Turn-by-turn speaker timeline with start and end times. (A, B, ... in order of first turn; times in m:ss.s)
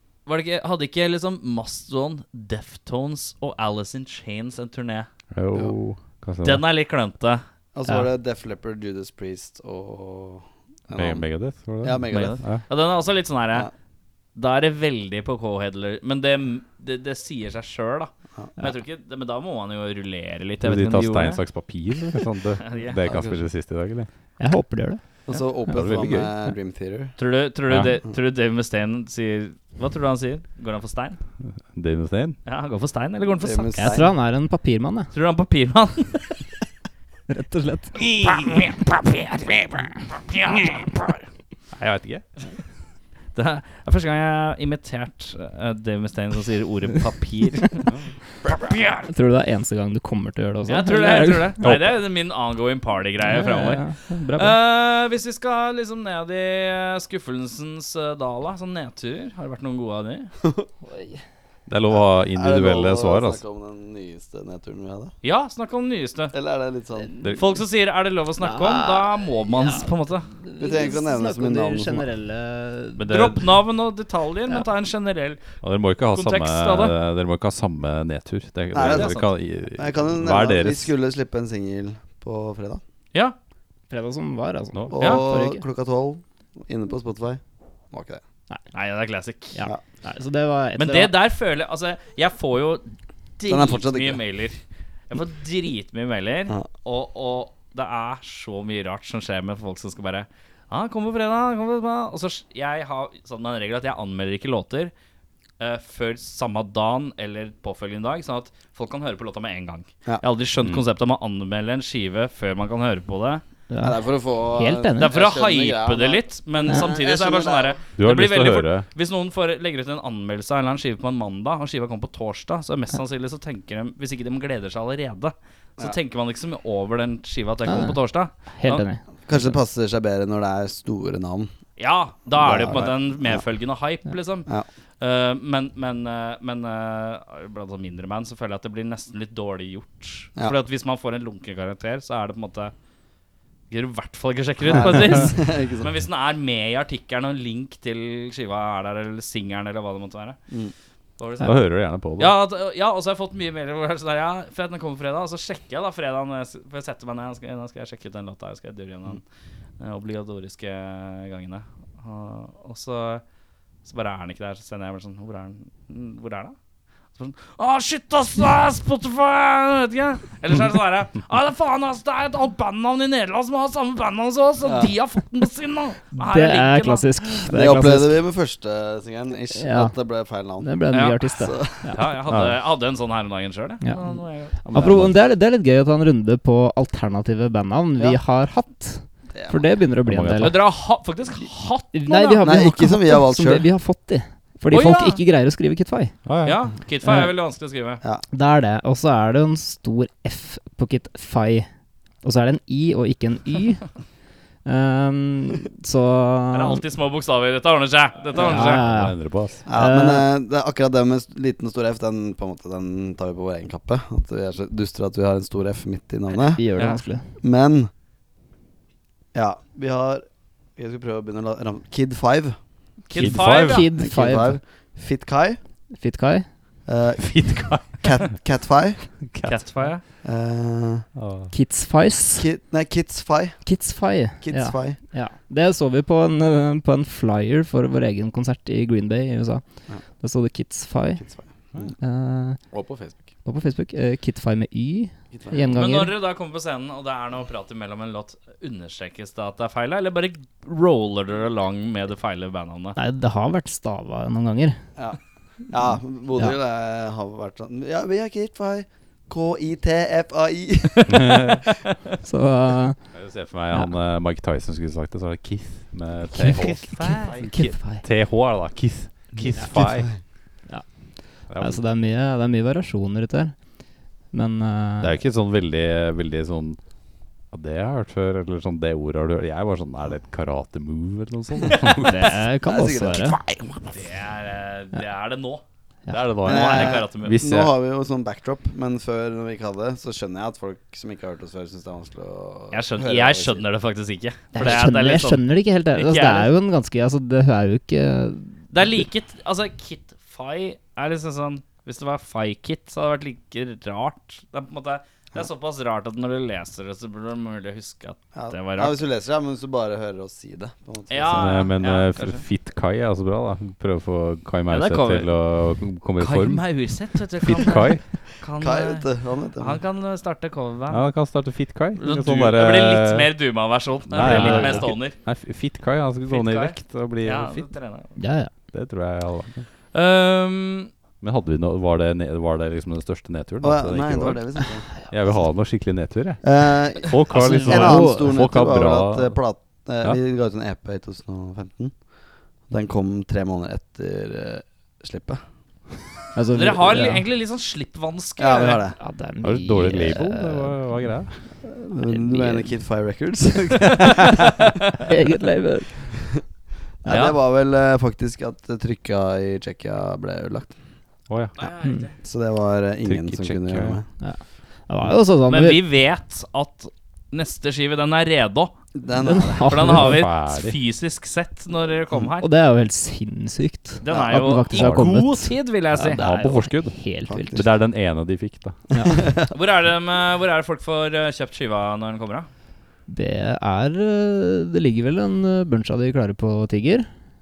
0:00.3-0:05.1 A
0:05.3-0:06.6 B
0:06.4-0:07.4 A
0:07.8-0:11.3 C
0:10.9-0:12.6 B
0:11.8-0:12.4 C
0:12.1-0:13.7 A
0:14.4-0:21.4 A
0:20.6-0:24.1 B
0:22.6-0:23.0 A
0:23.0-0:23.4 C
0:24.4-0:25.0 D
0:25.3-0:27.2 C
0:25.7-0:26.3 B
0:27.2-0:31.2 A
0:31.7-0:32.4 B
0:32.4-0:33.8 A
0:33.4-0:34.1 C
0:33.8-0:35.1 D
0:35.1-0:36.4 A
0:37.3-0:38.5 D
0:38.3-0:38.8 A
0:40.3-0:40.8 A
0:41.7-0:42.2 B
0:43.4-0:47.9 A
0:47.9-0:48.1 B
0:48.4-0:49.1 A
0:49.1-0:51.8 D
0:50.7-1:00.3 A
0:53.2-0:54.6 D
1:00.9-1:01.2 D
1:01.7-1:03.4 B
1:02.1-1:05.1 C
1:05.2-1:06.3 A
1:06.3-1:07.1 C
1:07.0-1:07.3 D
1:07.3-1:10.3 A
1:08.4-1:13.2 D
1:10.6-1:12.1 C
1:13.0-1:15.4 A
1:13.0-1:13.4 B
1:15.6-1:20.9 B
1:16.1-1:17.0 A
1:18.7-1:22.8 C
1:18.8-1:19.3 A
1:23.9-1:25.6 D
1:24.9-1:28.2 C
1:28.7-1:29.6 A
1:29.5-1:31.2 D
1:30.8-1:34.6 A
1:33.5-1:34.2 C
1:35.1-1:44.9 A
1:45.6-1:53.4 A
1:53.7-1:55.1 D
1:53.8-1:57.8 C
1:55.0-2:08.9 A
1:58.0-1:58.9 B
2:07.7-2:09.0 D
2:09.3-2:11.5 C
2:11.8-2:14.5 A
2:12.4-2:13.4 C
2:15.0-2:22.7 A
2:23.7-2:30.4 A
2:24.7-2:25.9 C
2:31.2-2:39.2 A
2:31.4-2:32.4 B
2:39.8-2:43.2 A
2:43.8-2:46.6 A
2:47.2-2:57.1 A
2:54.6-2:54.9 C
2:56.1-2:58.2 D
2:57.5-3:01.9 C
2:59.5-2:59.9 D
3:00.6-3:02.0 D
3:00.9-3:01.2 A
3:01.8-3:04.9 A
3:02.3-3:02.6 B
3:04.6-3:10.6 D
3:04.7-3:05.2 B
3:09.3-3:09.7 C
3:10.0-3:10.6 B
3:10.4-3:12.4 A
3:11.9-3:16.2 D
3:12.4-3:13.7 C
3:14.7-3:15.2 A
3:16.2-3:16.6 B
3:16.4-3:18.0 A
3:17.0-3:17.3 D
3:18.3-3:21.7 D
3:22.2-3:24.0 D
3:24.6-3:26.8 D
3:26.5-3:28.8 A
3:28.4-3:30.3 D
3:28.5-3:29.6 B
3:29.7-3:36.6 C
3:36.6-3:37.3 D
3:37.4-3:37.9 C
3:39.3-3:40.2 C
3:40.8-3:42.6 C
3:43.1-3:43.9 A
3:43.2-3:43.9 B
3:43.2-3:44.6 D
3:44.0-3:45.6 C
3:46.0-3:46.5 D
3:46.9-3:49.1 C
3:47.2-3:48.1 B
3:49.3-3:49.9 B
3:49.4-3:50.0 A
3:50.2-3:51.1 C
3:51.2-3:51.5 B
3:51.5-3:52.5 D
3:52.4-3:53.7 C
3:53.6-4:01.3 D
3:54.4-3:55.0 C
4:01.2-4:01.9 C
4:02.0-4:02.6 D
4:02.7-4:03.2 C
4:03.4-4:06.2 D
4:05.3-4:05.7 C
4:05.7-4:13.0 A
4:13.0-4:14.8 D
4:15.7-4:21.5 C
4:21.1-4:21.6 B
4:22.2-4:23.1 D
4:23.1-4:30.1 B
4:26.3-4:28.0 D
4:27.0-4:27.3 A
4:29.7-4:30.2 C
4:30.7-4:33.6 D
4:31.5-4:31.8 B
4:34.3-4:35.1 D
4:35.0-4:36.8 B
4:37.5-4:42.4 B
4:42.0-4:43.4 D
4:42.6-4:43.5 C
4:43.9-4:45.6 A
4:46.1-4:47.7 B
4:46.4-4:47.4 A
4:46.4-4:53.6 C
4:52.7-4:56.5 A
4:54.5-4:59.1 D
4:58.7-5:09.0 A
5:08.3-5:11.5 C
5:11.1-5:12.4 A
5:11.4-5:18.0 B
5:14.7-5:15.3 A
5:16.2-5:21.2 A
5:18.6-5:19.8 C
5:20.9-5:23.4 B
5:22.0-5:25.2 A
5:24.1-5:27.7 B
5:24.2-5:24.9 D
5:26.3-5:28.2 A
5:28.2-5:28.5 D
5:28.7-5:29.7 B
5:29.9-5:30.9 A
5:31.2-5:34.4 B
5:33.6-5:34.9 C
5:35.1-5:39.4 B
5:36.4-5:42.1 C
5:37.3-5:38.3 D
5:42.6-5:45.4 C
5:46.4-5:47.2 D
5:46.5-5:48.8 A
5:48.4-5:49.0 C
5:49.0-5:51.1 D
5:49.4-5:51.5 B
5:51.7-5:54.5 C
5:52.0-5:52.7 D
5:55.0-5:56.2 D
5:57.0-6:00.8 C
5:57.1-5:57.4 A
6:01.3-6:01.6 B
6:01.6-6:02.1 A
6:01.8-6:02.1 D
6:02.2-6:04.1 C
6:03.0-6:04.0 B
6:04.2-6:05.8 D
6:05.5-6:08.8 A
6:09.0-6:10.0 C
6:09.2-6:10.2 D
6:09.7-6:12.5 A
6:09.9-6:10.8 B
6:12.4-6:17.6 D
6:14.0-6:16.3 A
6:14.1-6:14.6 C
6:14.7-6:15.1 B
6:16.0-6:17.0 B
6:17.2-6:17.7 C
6:17.5-6:18.8 B
6:19.0-6:19.2 D
6:19.0-6:19.5 C
6:19.5-6:22.5 A
6:23.1-6:27.1 D